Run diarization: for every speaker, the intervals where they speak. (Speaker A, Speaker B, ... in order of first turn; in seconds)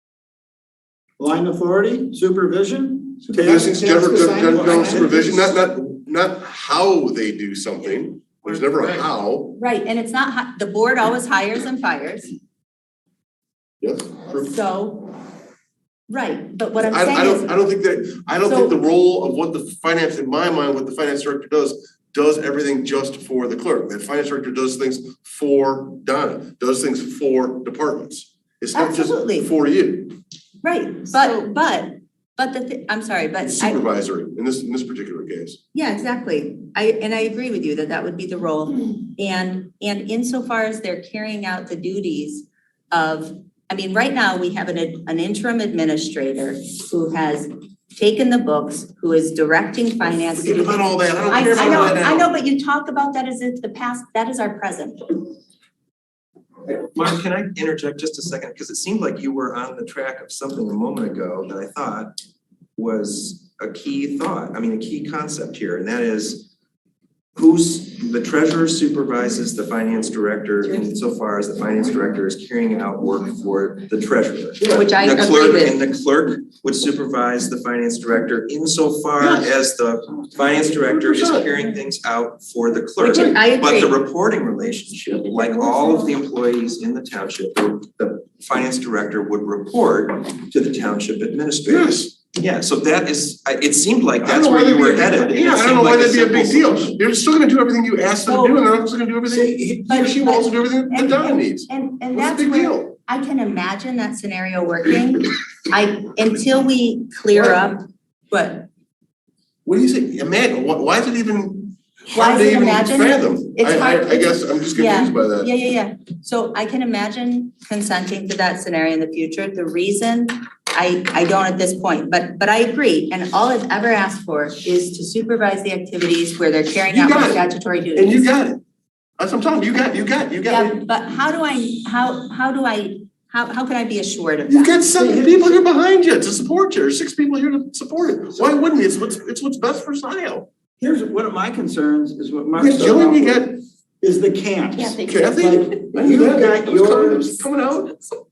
Speaker A: 1.2-5.5, 140.8-143.4, 144.0-147.4
Speaker B: 3.3-9.6, 13.8-14.5, 16.8-30.1, 33.4-35.6, 50.3-52.3, 74.6-75.0, 79.2-79.5, 80.6-81.5, 91.6-92.1, 94.2-102.9, 109.6-115.5, 126.9-128.6, 129.2-130.8, 134.5-140.5, 142.6-143.6, 145.0-148.1
Speaker C: 9.5-12.3, 14.3-15.2, 16.1-17.6, 18.4-18.8, 28.7-29.5, 30.6-33.8, 35.7-55.1, 74.7-75.8, 83.0-83.9, 98.3-98.6, 99.3-108.7, 112.1-128.3, 130.4-134.8
Speaker D: 51.5-51.9, 56.6-62.2, 62.8-66.5, 67.3-97.0